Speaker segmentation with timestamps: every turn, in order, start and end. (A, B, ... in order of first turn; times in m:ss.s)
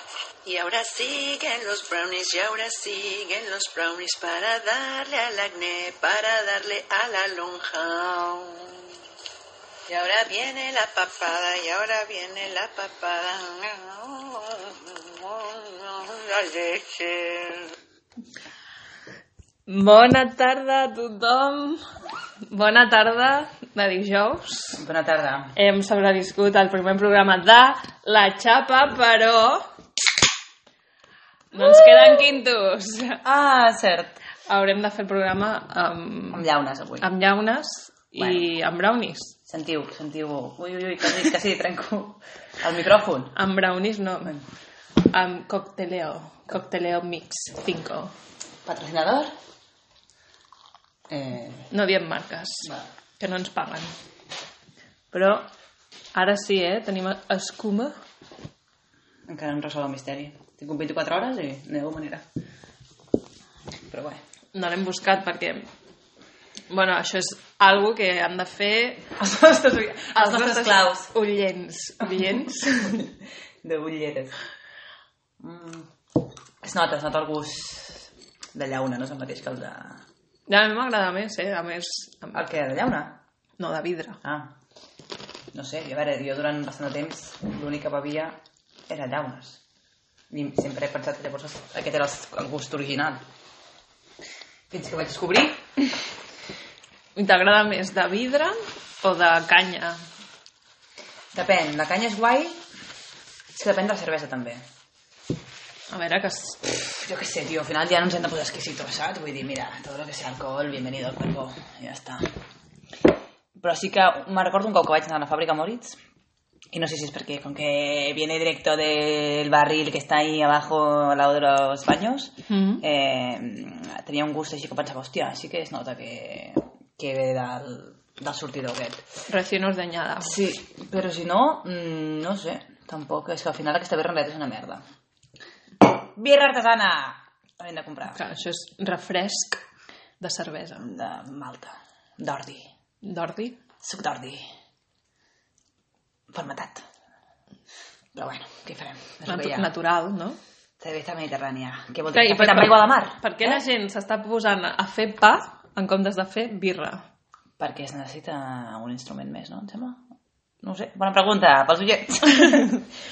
0:00.4-0:08.9 A
0:09.9-0:17.7 A
0:19.7-0:21.8 B
0:22.5-0:24.8 B
0:24.8-0:25.5 C
0:25.5-0:29.6 B
0:31.5-0:33.2 B
0:31.5-0:32.2 C
0:33.2-0:34.2 C
0:34.5-0:36.4 B
0:36.3-0:37.1 C
0:37.0-0:39.3 B
0:38.2-0:38.5 C
0:39.5-0:43.4 C
0:43.3-0:44.4 B
0:45.0-0:48.1 B
0:48.6-0:49.3 C
0:51.1-0:51.7 C
0:51.7-0:53.9 B
0:55.1-0:55.4 B
0:56.1-0:57.9 B
0:59.3-1:02.2 C
1:03.9-1:04.2 C
1:04.5-1:05.7 B
1:06.7-1:09.1 B
1:09.2-1:11.1 C
1:10.2-1:13.0 B
1:13.6-1:14.4 C
1:15.4-1:15.9 C
1:16.6-1:20.0 C
1:20.5-1:22.4 B
1:22.3-1:23.2 C
1:23.6-1:24.2 B
1:24.2-1:24.5 C
1:25.5-1:28.4 C
1:28.9-1:29.6 C
1:30.3-1:33.2 C
1:34.7-1:35.7 C
1:37.1-1:40.0 B
1:41.3-1:42.6 C
1:43.5-1:44.6 C
1:45.9-1:46.8 B
1:46.7-1:52.3 C
1:53.6-1:56.0 C
1:56.7-2:09.0 C
2:02.5-2:02.8 B
2:09.3-2:10.3 B
2:10.2-2:14.8 C
2:15.8-2:18.2 C
2:18.1-2:19.6 B
2:20.2-2:20.9 B
2:20.8-2:22.7 C
2:23.0-2:23.6 B
2:23.8-2:24.4 C
2:26.3-2:26.8 C
2:28.1-2:29.7 C
2:29.2-2:30.4 B
2:30.8-2:33.6 C
2:32.1-2:37.0 B
2:37.6-2:40.0 C
2:40.6-2:42.9 C